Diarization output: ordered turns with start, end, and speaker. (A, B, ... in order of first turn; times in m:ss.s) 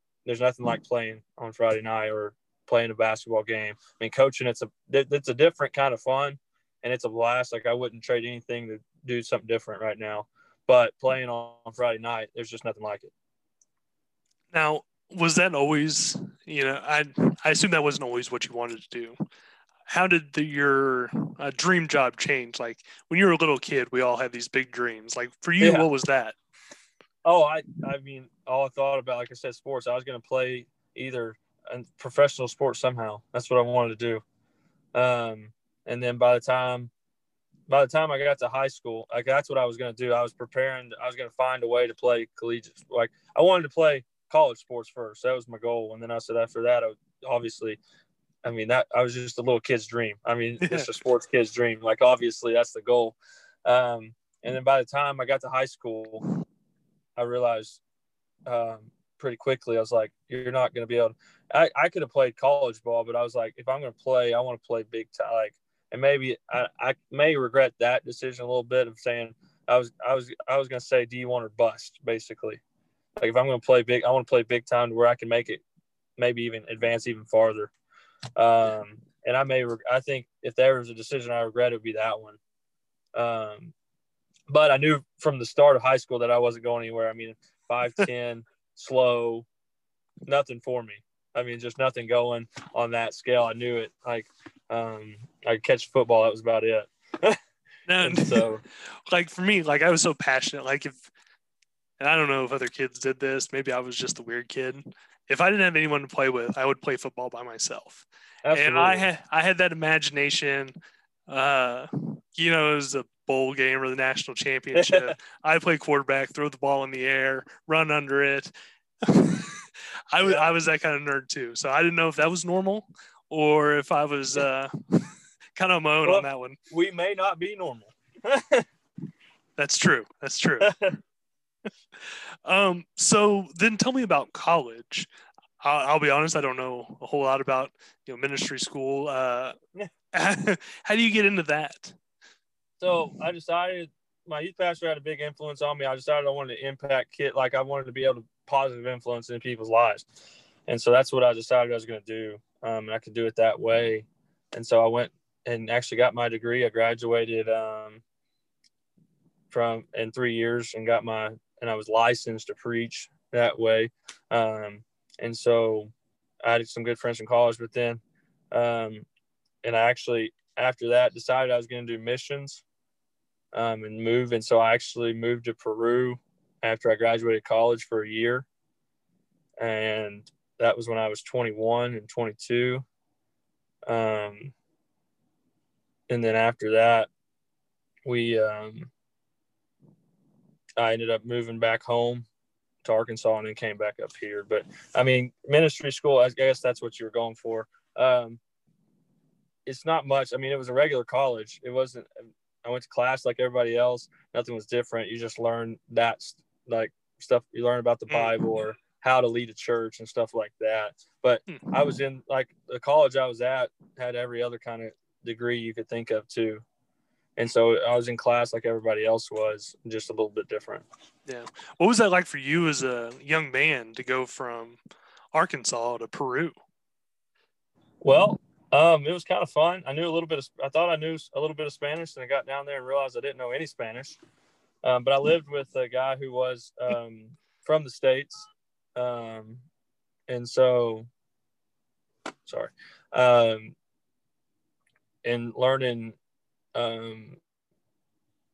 0:00.2-0:13.1 A
0:14.5-0:19.2 B
0:19.9-0:26.4 B
0:25.6-0:25.9 A
0:27.2-0:34.2 A
0:34.9-0:36.9 A
0:37.7-0:47.8 A
0:48.4-0:56.2 A
0:50.6-0:50.9 B
0:57.2-0:57.8 A
0:58.5-1:12.6 A
1:13.2-1:15.6 A
1:16.2-1:17.7 A
1:18.4-1:22.4 A
1:23.1-1:23.7 A
1:24.5-1:29.5 A
1:30.2-1:37.4 A
1:37.9-1:38.5 B
1:38.0-1:38.6 A
1:39.1-1:41.1 B
1:42.0-1:50.8 B
1:48.4-1:49.1 A
1:51.3-1:58.5 B
1:54.8-1:55.1 A
1:59.0-2:06.6 B
2:06.0-2:08.6 A
2:09.6-2:10.7 B
2:10.6-2:11.0 A
2:12.0-2:15.1 B
2:15.6-2:19.6 B
2:20.1-2:22.0 B
2:22.8-2:30.1 A
2:30.7-2:38.0 A
2:39.5-2:45.9 A
2:46.4-2:48.0 A
2:48.5-2:49.0 A
2:49.6-2:52.6 A
2:53.5-2:58.5 A
2:59.6-3:02.8 A
3:03.9-3:04.5 A
3:06.1-3:07.1 A
3:08.0-3:08.9 A
3:10.8-3:12.2 A
3:12.8-3:18.4 A
3:19.6-3:36.6 A
3:28.1-3:28.4 B
3:31.5-3:31.7 B
3:37.4-3:40.8 A
3:41.2-3:44.8 B
3:45.3-3:46.5 B
3:48.0-3:54.2 A
3:54.8-3:59.6 A
4:00.3-4:01.1 A
4:02.4-4:03.7 A
4:05.2-4:06.2 A
4:06.7-4:07.4 A